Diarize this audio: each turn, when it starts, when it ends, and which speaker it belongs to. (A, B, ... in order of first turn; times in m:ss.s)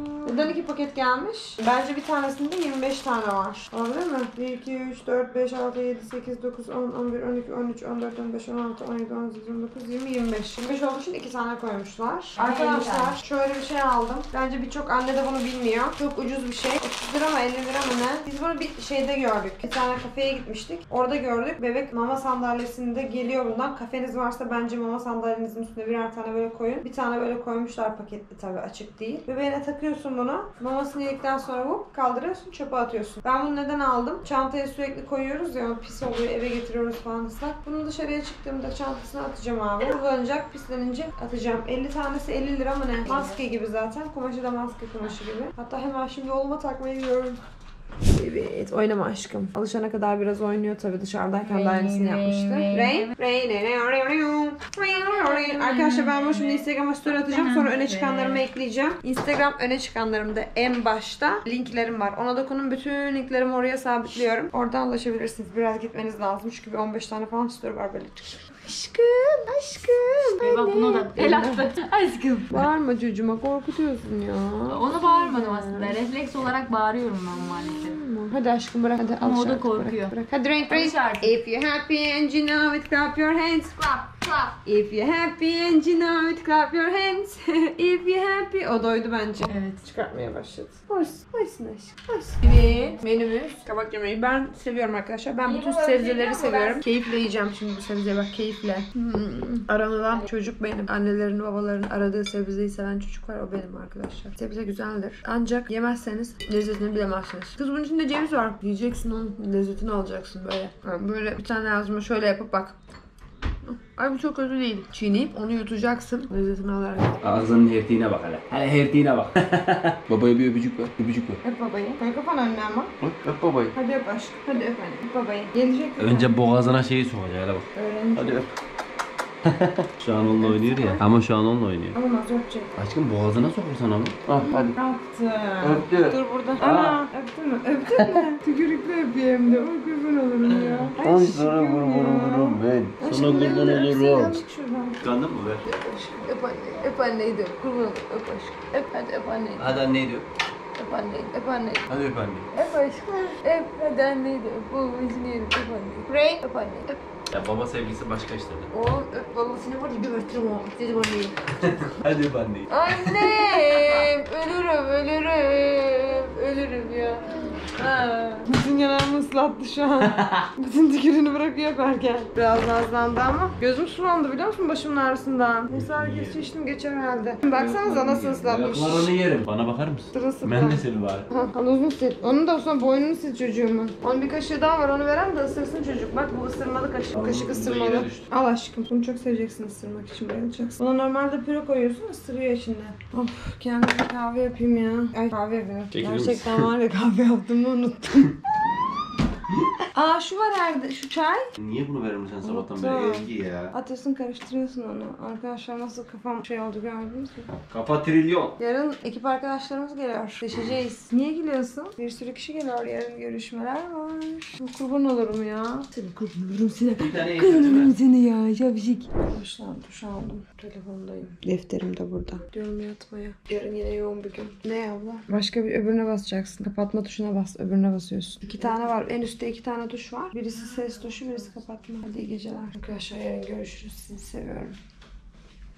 0:00.2-0:47.4 A
0:12.4-0:13.2 B
0:48.1-1:11.6 A
0:51.4-0:53.1 B
0:54.9-0:58.4 B
1:10.4-1:12.6 B
1:12.5-1:16.0 A
1:14.7-1:18.0 B
1:17.4-1:52.8 A
1:19.2-1:21.3 B
1:29.4-1:29.8 B
1:32.4-1:33.0 B
1:35.4-1:36.8 B
1:53.6-1:57.3 A
1:57.2-2:01.4 C
2:01.4-2:02.9 A
2:03.0-2:03.7 C
2:03.7-2:06.3 A
2:06.0-2:08.5 C
2:07.7-2:08.5 A
2:09.4-2:12.0 C
2:10.1-2:11.0 A
2:11.9-2:12.7 A
2:12.8-2:14.8 C
2:14.4-2:25.0 A
2:15.6-2:17.0 C
2:20.5-2:24.4 C
2:25.0-2:25.6 C
2:25.6-2:29.8 A
2:29.6-2:30.3 C
2:30.8-2:31.8 A
2:31.9-2:32.5 C
2:32.5-2:37.0 A
2:37.3-2:38.7 C
2:38.7-2:41.4 A
2:41.6-2:44.0 C
2:42.7-2:59.1 A
2:50.0-2:50.5 C
2:55.7-2:56.4 C
2:57.5-3:01.3 C
3:00.1-3:18.4 A
3:07.1-3:08.2 C
3:15.9-3:16.7 C
3:19.9-3:21.5 A
3:21.6-3:23.7 C
3:22.4-3:27.5 A
3:27.7-3:28.5 C
3:28.6-3:54.8 A
3:37.0-3:37.9 C